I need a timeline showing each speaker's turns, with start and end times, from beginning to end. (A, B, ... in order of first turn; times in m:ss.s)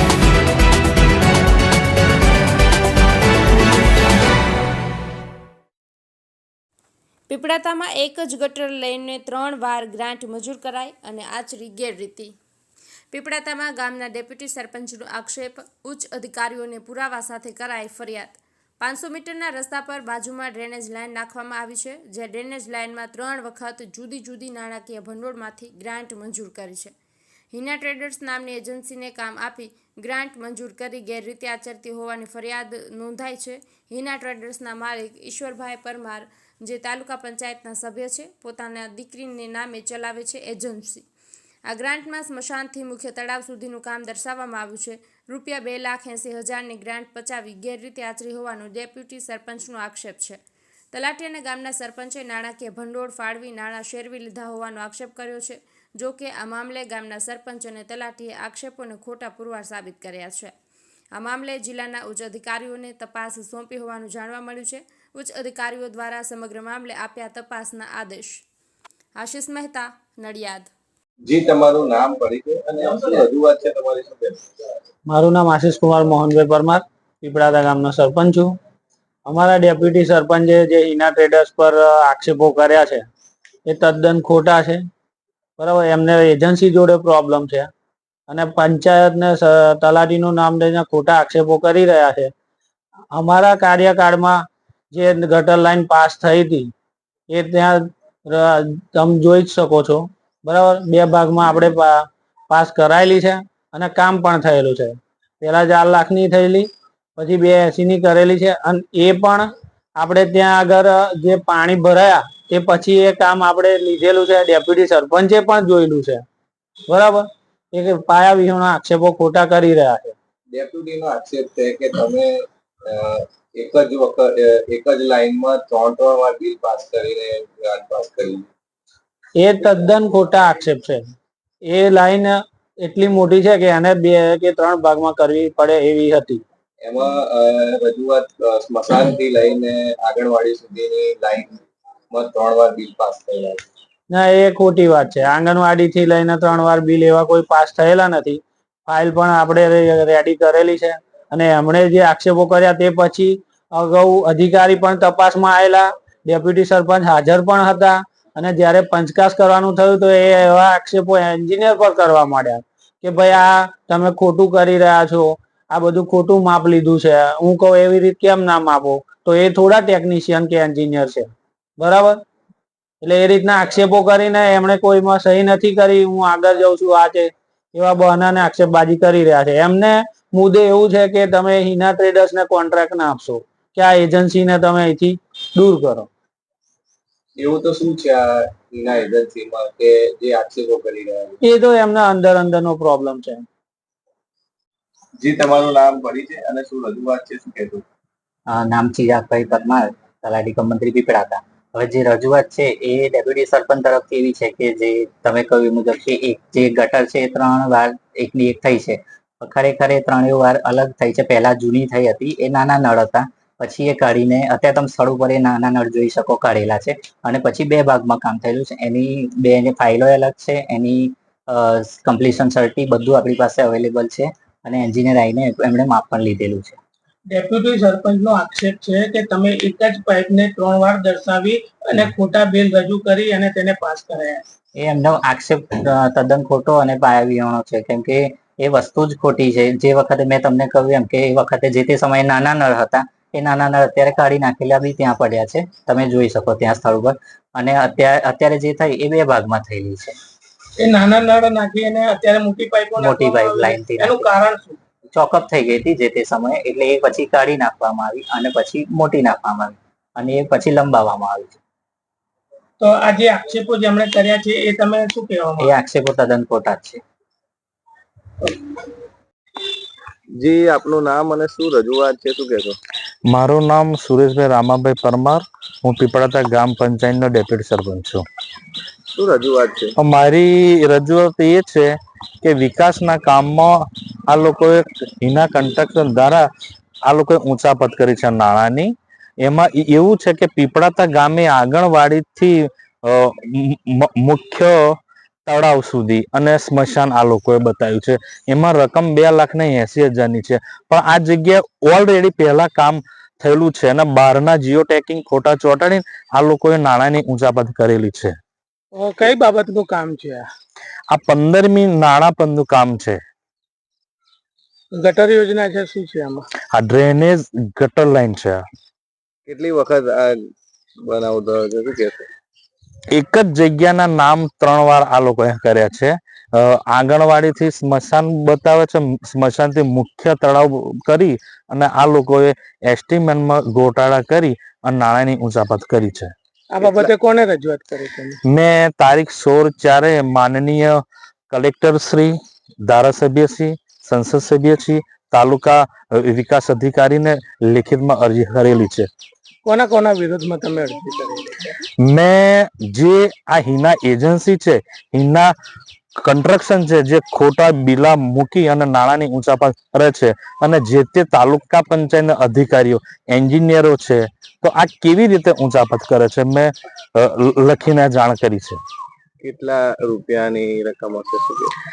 0:07.3-0:12.4 A
0:13.1-0:26.9 A
0:27.5-0:41.0 A
0:41.7-0:50.4 A
0:50.9-1:00.5 A
1:01.1-1:08.4 A
1:09.2-1:10.7 A
1:11.2-1:14.4 B
1:15.1-1:18.5 C
1:19.2-1:23.0 C
1:23.6-1:24.8 C
1:25.6-1:27.7 C
1:28.3-1:32.3 C
1:33.1-1:36.7 C
1:37.3-1:56.2 C
1:56.9-2:00.1 C
2:00.5-2:02.3 B
2:02.9-2:08.4 B
2:09.4-2:11.0 C
2:11.6-2:16.4 C
2:16.8-2:21.6 B
2:22.1-2:23.6 B
2:24.1-2:52.2 C
2:53.0-3:06.1 C
3:07.4-3:11.4 B
3:11.4-3:13.4 C
3:15.2-3:17.8 B
3:18.5-3:46.8 D
3:47.3-3:54.4 E
3:54.8-4:10.2 D
4:10.8-4:14.8 E
4:13.0-4:14.3 D
4:15.1-4:21.6 D
4:22.8-4:25.7 E
4:25.6-4:27.0 D
4:30.4-4:32.8 B
4:33.3-4:38.2 F
4:39.1-4:39.9 B
4:40.0-4:41.9 F
4:42.4-4:43.8 F
4:44.3-4:46.4 F
4:47.1-4:54.8 F
4:55.4-5:08.4 F
5:08.9-5:10.4 E
5:11.1-5:13.2 F
5:14.9-5:16.4 E
5:16.7-5:18.6 F
5:19.5-5:20.3 B
5:21.1-5:22.3 B
5:23.1-5:36.3 F
5:36.7-5:38.4 E
5:36.8-5:37.1 B
5:38.4-5:42.3 F
5:42.8-5:49.1 F
5:49.6-5:51.7 E
5:52.0-5:55.5 F
5:56.2-6:08.8 F
6:09.4-6:11.7 B